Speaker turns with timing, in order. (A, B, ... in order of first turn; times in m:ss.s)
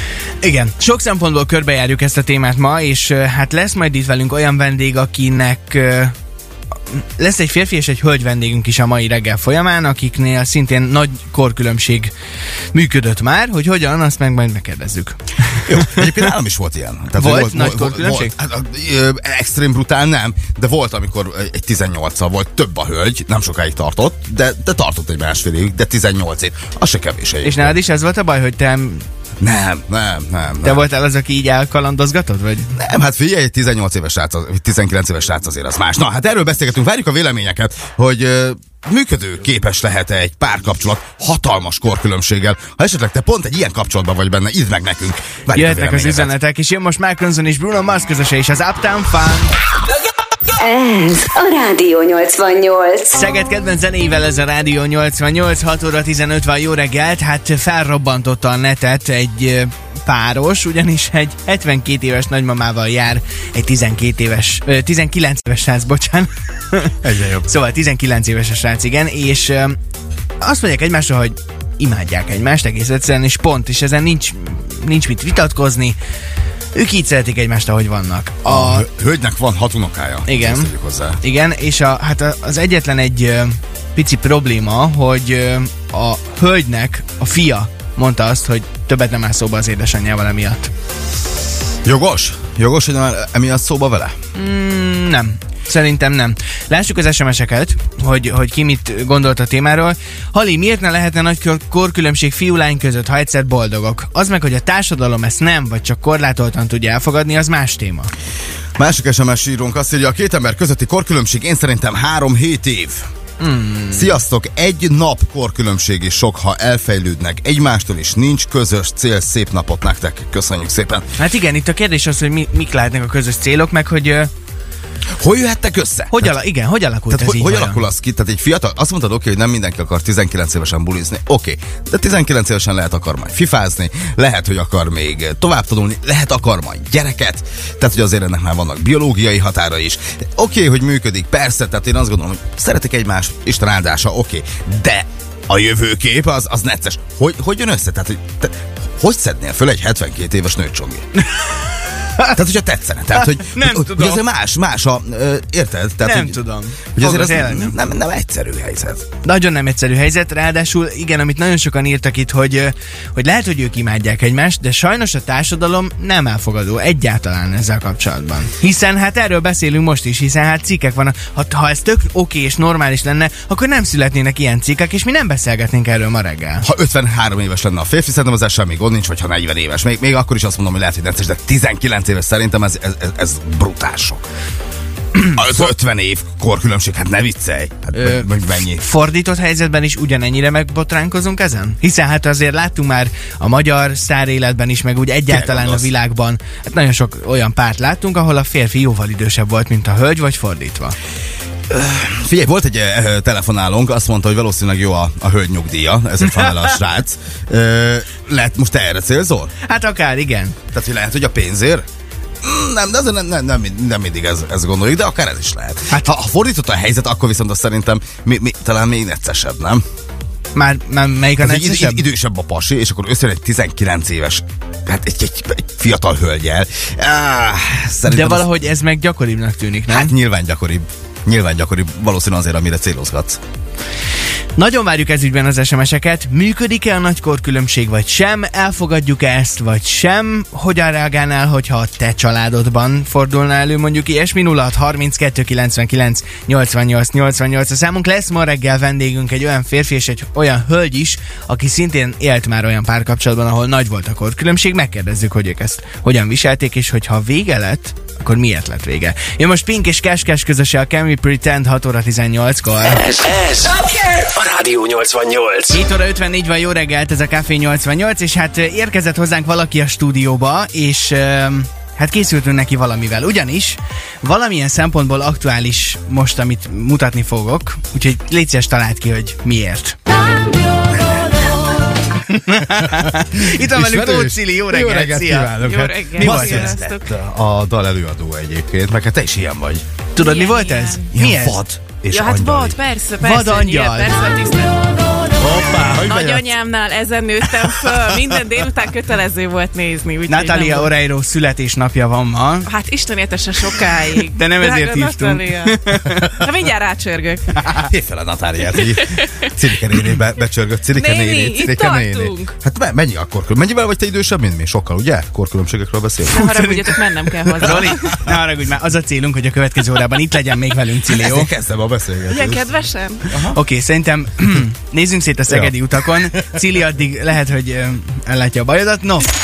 0:00.4-0:06.2 A
0:06.9-0:12.1 A
0:12.7-0:16.1 A
0:15.7-0:27.8 B
0:17.2-0:18.3 A
0:27.4-0:29.1 A
0:29.4-0:30.8 B
0:30.6-0:32.8 A
0:32.8-0:46.3 B
0:45.5-0:49.5 A
0:50.6-0:53.1 C
0:53.1-1:09.8 A
1:07.0-1:07.5 B
1:10.4-1:16.0 A
1:16.7-1:18.8 A
1:18.4-1:21.2 B
1:20.2-1:30.7 A
1:31.8-1:34.1 B
1:34.3-1:48.1 A
1:48.8-1:53.0 B
1:53.4-1:54.2 A
1:53.9-2:01.1 B
2:01.2-2:04.3 A
2:05.2-2:06.3 B
2:06.1-2:07.8 A
2:07.1-2:31.1 B
2:31.4-2:32.3 A
2:32.2-2:36.4 B
2:33.4-2:34.2 A
2:36.0-2:37.8 A
2:37.0-2:39.0 B
2:39.2-2:56.7 A
2:56.6-3:04.2 B
3:05.2-3:08.8 B
3:08.0-3:21.0 A
3:15.3-3:15.9 B
3:21.7-3:29.5 B
3:26.2-3:26.8 A
3:29.6-3:30.6 A
3:30.7-3:31.8 B
3:32.4-3:39.8 B
3:40.5-3:42.0 A
3:41.4-3:48.5 B
3:48.0-3:50.1 A
3:49.9-3:53.4 B
3:54.6-4:23.1 A
4:23.1-4:25.8 D
4:25.7-4:40.0 A
4:42.2-4:45.6 A
4:42.7-4:49.8 B
4:45.6-4:47.1 E
4:46.2-4:46.8 A
4:50.1-4:51.7 A
4:50.2-4:51.1 E
4:51.1-4:52.8 B
4:52.1-4:54.8 E
4:53.2-4:54.2 A
4:55.4-4:56.5 B
4:55.9-5:00.9 E
5:00.3-5:02.7 A
5:02.7-5:07.5 E
5:04.3-5:06.5 A
5:07.8-5:16.5 B
5:08.7-5:09.5 E
5:11.0-5:12.6 E
5:16.3-5:17.0 A
5:16.3-5:18.1 E
5:17.6-5:21.5 A
5:21.1-5:22.7 B
5:22.3-5:23.3 E
5:23.3-5:23.6 B
5:23.5-5:29.3 A